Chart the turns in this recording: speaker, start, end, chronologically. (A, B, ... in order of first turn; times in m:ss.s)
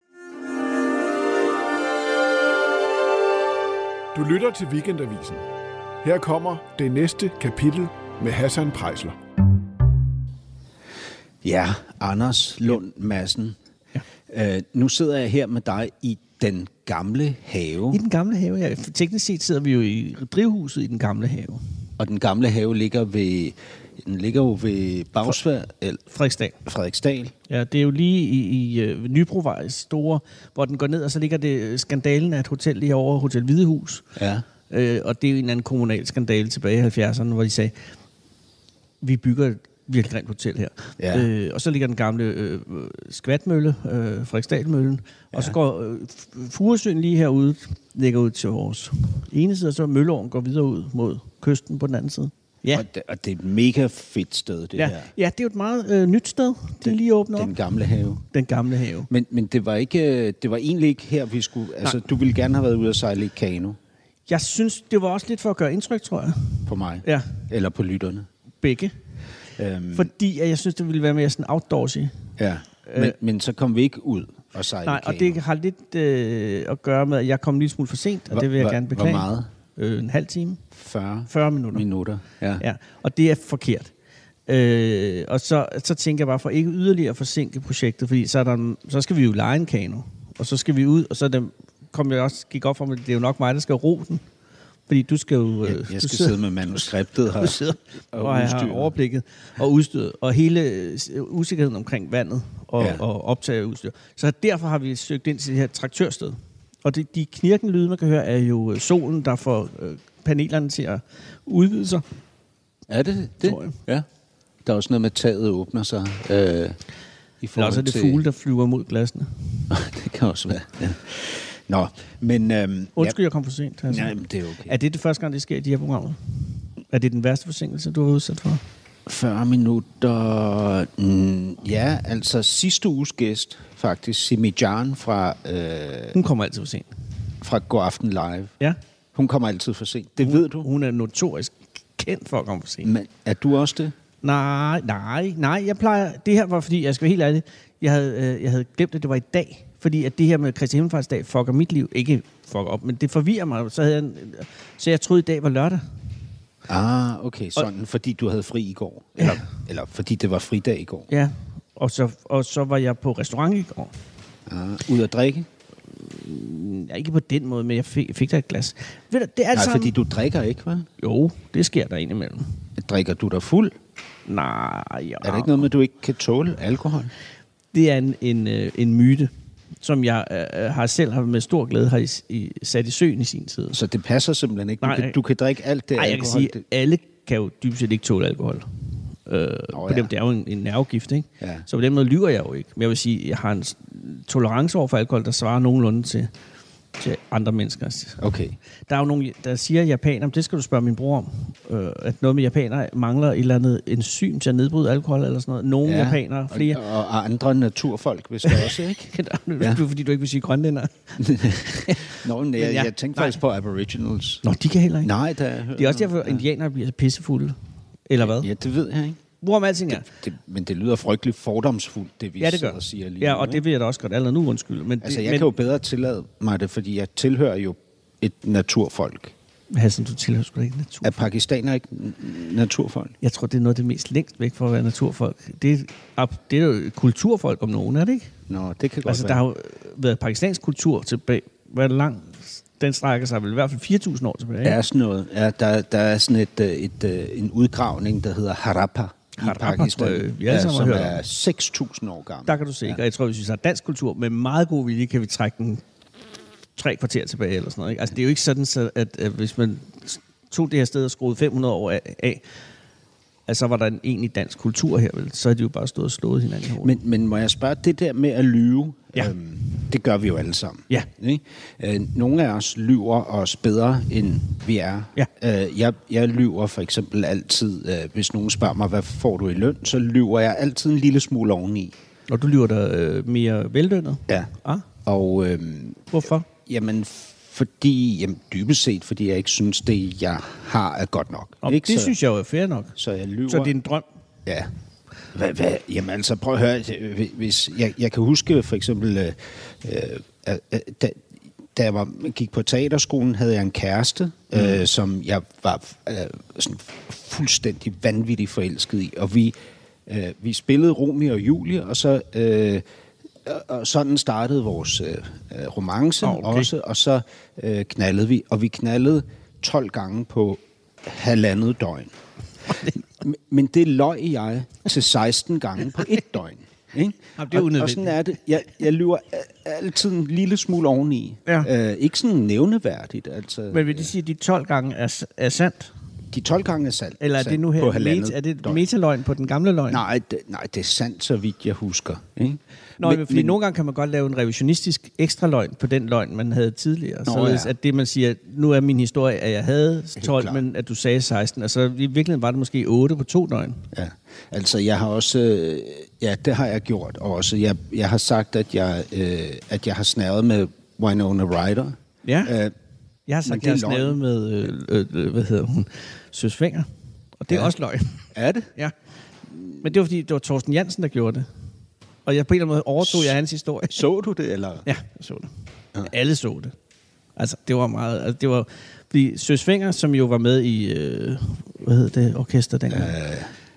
0:04.1-0:05.4 A
0:06.0-0:09.2 A
0:11.4-0:13.6 B
0:14.3-0:18.0 B
0:17.9-0:21.6 C
0:22.0-0:26.0 B
0:26.1-0:26.6 C
0:26.6-0:27.3 B
0:27.5-0:34.0 C
0:34.2-0:34.5 B
0:34.7-0:37.8 C
0:39.0-0:52.8 C
0:41.0-0:41.3 B
0:52.7-0:55.1 B
0:54.8-0:57.5 C
0:56.9-0:58.2 B
0:58.2-0:59.1 C
0:59.1-1:03.8 B
1:04.3-1:07.5 C
1:06.7-1:08.3 B
1:08.6-1:08.9 C
1:09.6-1:10.1 B
1:09.9-1:12.2 C
1:12.4-1:15.4 B
1:12.8-1:13.2 C
1:14.8-1:20.6 C
1:18.3-1:19.5 B
1:20.7-1:22.6 B
1:21.3-1:21.8 C
1:22.6-1:23.9 C
1:24.5-1:34.2 C
1:34.9-1:52.0 C
1:35.6-1:37.6 B
1:38.1-1:38.9 B
1:42.8-1:43.0 B
1:52.9-1:54.1 B
1:53.4-1:53.8 C
1:54.6-1:56.8 B
1:57.4-1:58.2 B
1:57.6-1:59.7 C
1:59.7-2:03.2 B
2:03.0-2:04.2 C
2:03.9-2:04.7 B
2:04.7-2:06.4 C
2:06.9-2:08.6 C
2:09.1-2:16.2 B
2:16.1-2:16.9 C
2:17.4-2:18.6 B
2:19.1-2:20.7 B
2:20.2-2:22.9 C
2:22.8-2:24.0 B
2:24.2-2:35.8 C
2:36.7-2:41.1 B
2:39.2-2:39.4 C
2:41.1-2:43.9 C
2:44.5-2:45.5 B
2:46.0-2:50.0 C
2:49.5-2:50.9 B
2:51.0-2:52.5 C
2:52.8-2:53.8 B
2:54.3-2:55.7 C
2:55.2-2:57.1 B
2:57.7-2:59.3 C
2:59.8-3:03.8 C
3:03.7-3:06.6 B
3:04.8-3:05.2 C
3:05.9-3:08.7 C
3:09.3-3:16.3 C
3:09.7-3:10.1 B
3:11.4-3:11.7 B
3:17.0-3:18.2 C
3:18.2-3:18.6 B
3:18.9-3:26.8 C
3:25.8-3:29.8 B
3:28.4-3:33.4 C
3:31.2-3:34.4 B
3:34.4-3:35.1 C
3:35.0-3:36.5 B
3:35.8-3:37.6 C
3:38.1-3:38.5 C
3:38.2-3:39.2 B
3:39.4-3:40.1 C
3:39.9-3:43.6 B
3:42.4-3:45.5 C
3:45.0-3:49.3 B
3:49.7-3:51.2 C
3:51.0-3:53.2 B
3:53.2-3:58.3 C
3:58.5-3:59.4 B
3:59.0-4:04.8 C
4:04.6-4:13.0 B
4:09.4-4:11.2 C
4:12.5-4:15.8 C
4:16.8-4:22.4 C
4:23.5-4:27.0 C
4:26.8-4:41.9 B
4:42.3-4:44.9 C
4:45.0-4:52.1 B
4:46.1-4:46.5 C
4:51.6-4:53.0 C
4:53.0-4:53.7 B
4:53.5-4:54.0 C
4:55.3-5:01.2 B
5:01.7-5:09.6 B
5:10.1-5:12.8 B
5:13.4-5:22.1 B
5:16.2-5:16.7 C
5:23.2-5:34.1 B
5:27.4-5:28.2 C
5:33.7-5:35.9 C
5:36.3-5:38.8 B
5:37.2-5:40.0 C
5:39.9-5:43.6 B
5:43.0-5:53.9 C
5:47.3-5:47.7 B
5:50.2-5:50.6 B
5:53.9-6:02.7 B
6:02.2-6:02.5 C
6:03.3-6:06.9 C
6:03.4-6:04.2 B
6:07.4-6:08.9 C
6:08.3-6:08.7 B
6:09.8-6:11.5 C
6:12.3-6:14.0 C
6:13.0-6:13.3 B
6:13.9-6:14.9 B
6:14.9-6:15.5 C
6:16.0-6:16.7 C
6:17.4-6:23.2 C
6:22.9-6:23.5 B